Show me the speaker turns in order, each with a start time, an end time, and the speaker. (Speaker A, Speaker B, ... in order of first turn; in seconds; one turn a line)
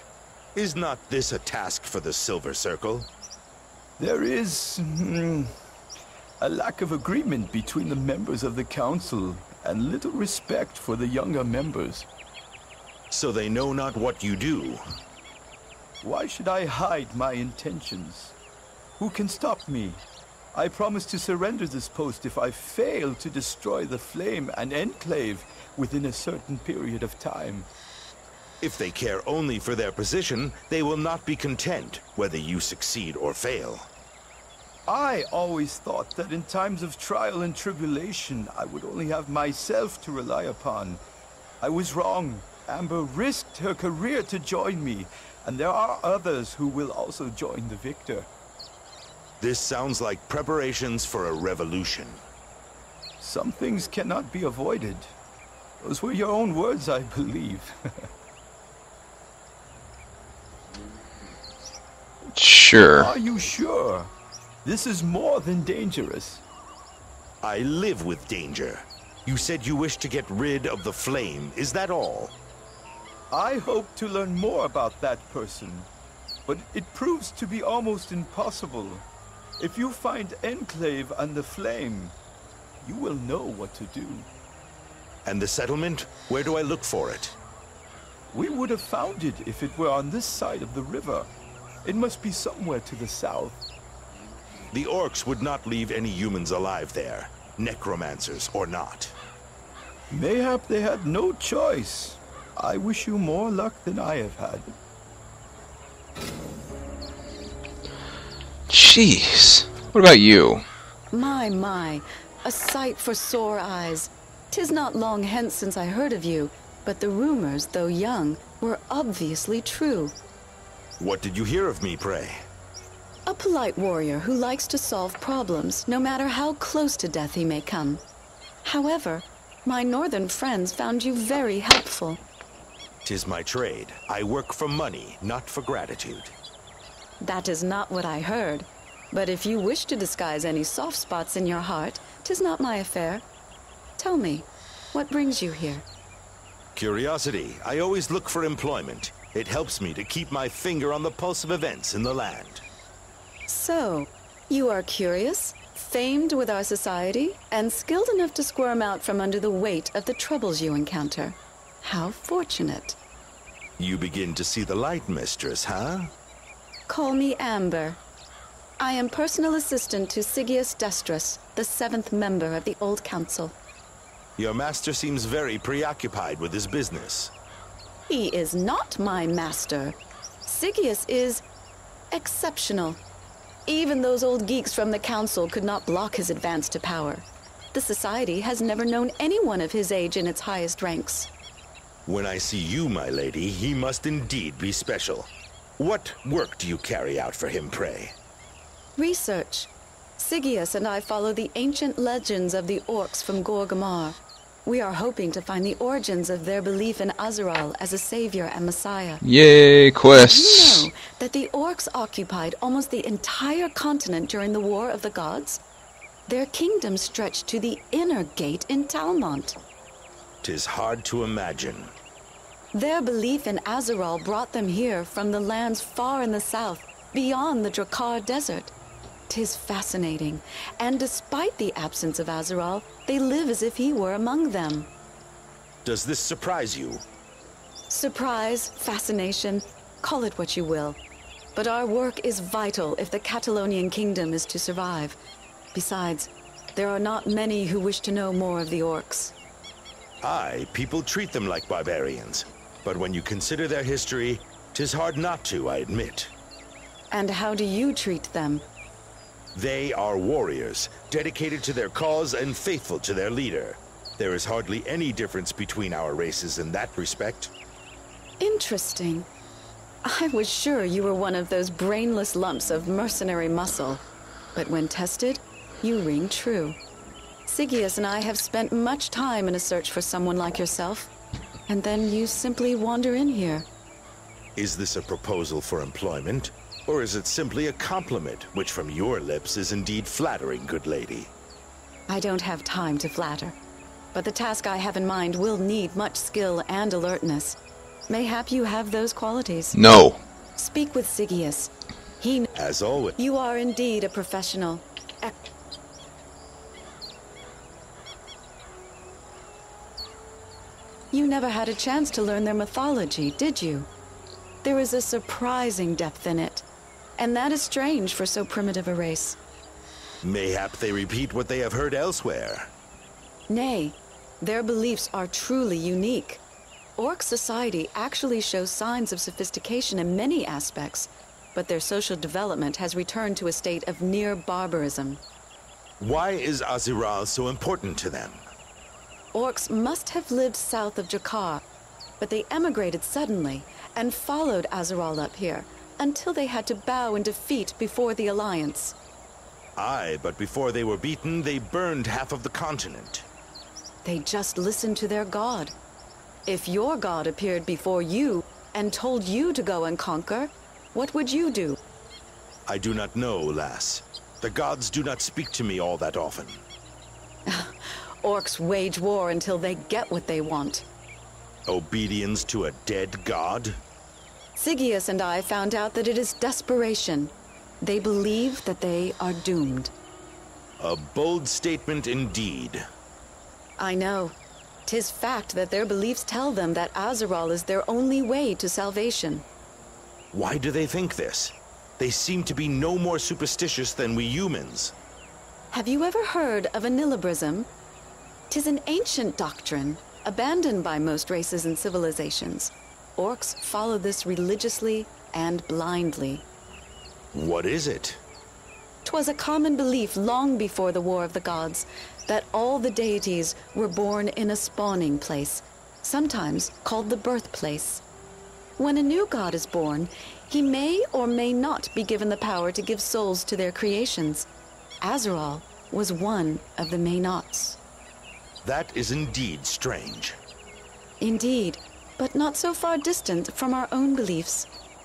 Speaker A: 0.6-3.1
Speaker B: 4.0-5.5
Speaker B: 6.4-12.1
Speaker A: 13.1-14.8
Speaker B: 16.0-18.4
Speaker B: 19.0-20.0
Speaker B: 20.5-27.7
Speaker A: 28.6-33.9
Speaker B: 34.9-41.0
Speaker B: 41.6-48.3
Speaker A: 49.4-52.2
Speaker B: 53.2-55.1
Speaker B: 55.8-57.7
Speaker C: 62.4-63.1
Speaker B: 63.0-64.1
Speaker B: 64.6-66.4
Speaker A: 67.4-72.3
Speaker B: 73.3-75.9
Speaker B: 76.5-79.1
Speaker B: 79.6-82.2
Speaker B: 82.8-84.3
Speaker A: 85.2-87.4
Speaker B: 88.3-91.3
Speaker B: 91.8-93.6
Speaker A: 94.7-99.2
Speaker B: 100.1-104.7
Speaker C: 108.7-110.6
Speaker D: 111.1-120.2
Speaker A: 121.0-122.4
Speaker D: 123.3-128.0
Speaker D: 128.6-132.2
Speaker A: 133.1-136.3
Speaker D: 137.2-143.2
Speaker D: 144.0-145.8
Speaker A: 146.8-152.6
Speaker D: 153.5-163.0
Speaker A: 163.8-166.1
Speaker D: 166.9-168.0
Speaker D: 168.8-173.6
Speaker A: 174.4-177.3
Speaker D: 178.1-181.4
Speaker D: 182.1-183.0
Speaker D: 183.7-191.3
Speaker A: 192.1-198.1
Speaker D: 199.0-209.2
Speaker C: 209.2-210.9
Speaker D: 210.1-215.6
Speaker D: 216.3-219.6
Speaker A: 220.4-221.9
Speaker D: 222.7-228.7
Speaker D: 229.3-234.9
Speaker A: 235.8-237.0
Speaker D: 237.9-241.0
Speaker D: 241.6-245.2
Speaker D: 245.7-249.3
Speaker A: 250.2-256.3
Speaker D: 257.1-258.6
Speaker A: 259.6-267.5
Speaker D: 268.4-269.3
Speaker D: 270.1-274.0
Speaker D: 274.6-276.8
Speaker D: 277.5-281.1
Speaker D: 281.7-283.7
Speaker A: 284.6-291.3
Speaker D: 292.1-293.6
Speaker D: 294.1-297.6
Speaker D: 298.1-299.8
Speaker C: 299.7-300.2
Speaker D: 300.6-302.5
Speaker A: 302.6-303.1
Speaker D: 303.2-305.4
Speaker D: 311.1-313.9
Speaker D: 314.6-316.6
Speaker D: 317.2-319.4
Speaker A: 320.2-322.7
Speaker D: 323.5-326.4
Speaker D: 327.0-335.2
Speaker A: 336.0-338.4
Speaker D: 339.3-341.6
Speaker D: 342.2-348.9
Speaker A: 349.8-353.3
Speaker D: 354.0-355.7
Speaker D: 356.5-361.8
Speaker A: 362.7-366.6
Speaker D: 367.5-370.9
Speaker A: 371.7-373.8
Speaker D: 374.6-379.9
Speaker A: 380.8-382.8
Speaker D: 383.8-384.4
Speaker D: 384.9-389.4
Speaker A: 390.3-394.9
Speaker D: 395.7-397.7
Speaker D: 398.5-406.4
Speaker A: 407.3-408.2
Speaker D: 409.1-418.0
Speaker D: 418.8-424.5
Speaker D: 425.0-427.8
Speaker A: 428.6-430.4
Speaker D: 431.2-434.7